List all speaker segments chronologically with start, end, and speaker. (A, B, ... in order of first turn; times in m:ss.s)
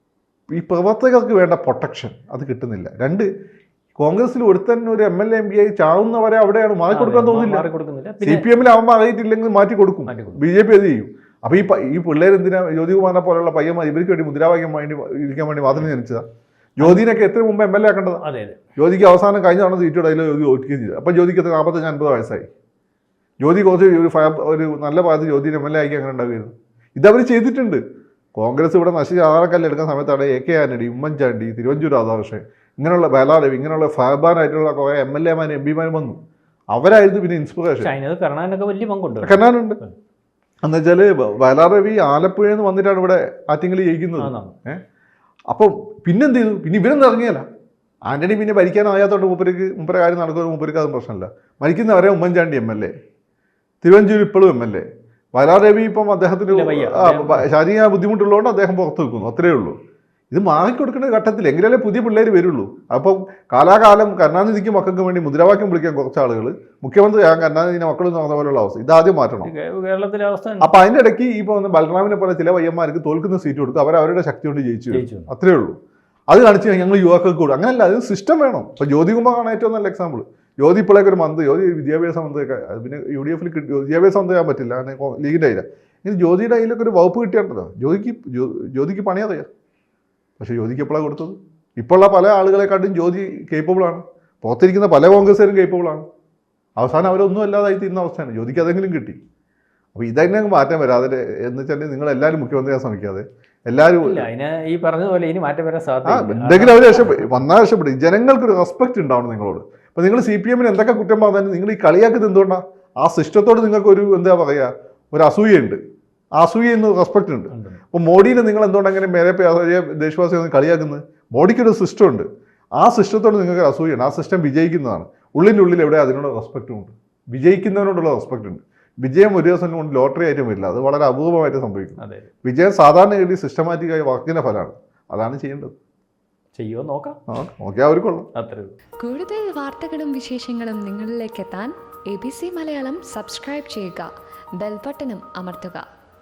0:00.5-0:03.3 A
0:04.0-0:07.6 A
0:06.9-0:08.5 B
0:08.2-0:16.2 A
0:10.1-0:10.4 B
0:16.8-0:18.2 A
0:18.2-0:18.6 B
0:18.8-0:22.5 A
0:23.4-0:27.8 A
0:28.4-0:36.2 A
0:36.7-0:37.9 A
0:37.8-0:39.9 B
0:39.2-0:39.8 A
0:40.6-0:44.8 A
0:44.2-0:44.5 B
0:45.5-0:47.4 A
0:48.0-0:52.9 A
0:53.8-0:59.8 A
0:56.5-0:57.5 B
1:00.3-1:09.5 A
1:09.4-1:10.7 B
1:10.6-1:15.8 A
1:14.9-1:15.3 B
1:16.3-1:29.5 A
1:30.4-1:36.0 A
1:36.8-1:39.2 A
1:39.9-1:44.3 A
1:44.0-1:47.4 B
1:46.0-1:55.8 A
1:56.4-2:15.7 A
1:57.5-1:57.8 B
2:12.0-2:12.3 B
2:16.6-2:17.2 B
2:17.3-2:18.3 A
2:18.4-2:18.7 B
2:19.0-2:25.8 C